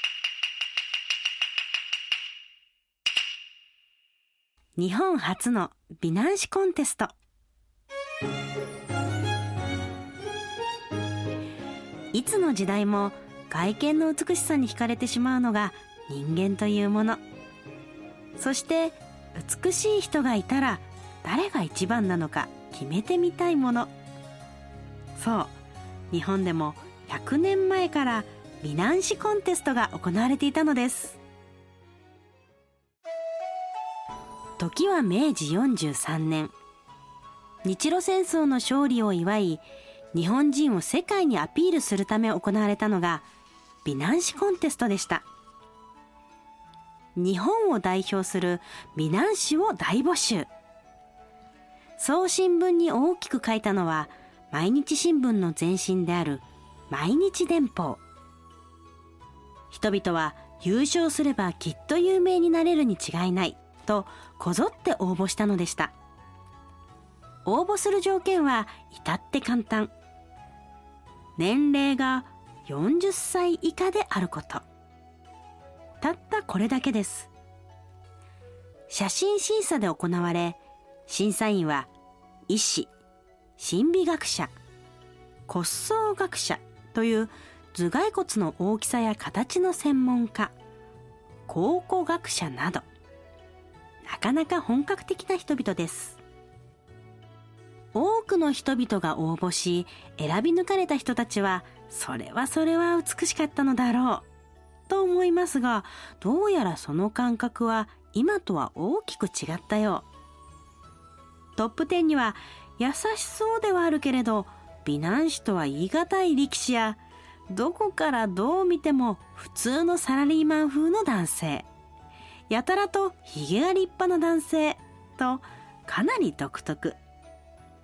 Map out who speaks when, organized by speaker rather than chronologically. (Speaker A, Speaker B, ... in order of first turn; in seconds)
Speaker A: 4.8-7.1, 12.1-17.2, 18.4-23.9, 25.2-25.6, 26.1-31.2, 34.6-36.5, 37.6-39.6, 40.1-43.2, 43.9-45.2, 47.2-50.5, 52.0-58.0, 59.7-65.9, 67.5-69.9, 71.4-74.6, 76.0-77.3, 78.9-81.9, 82.5-82.9, 83.6-84.5, 85.5-90.5, 91.5-92.8, 94.0-96.2, 97.9-104.2, 104.9-110.1, 111.6-117.0, 117.5-121.7, 122.5-127.0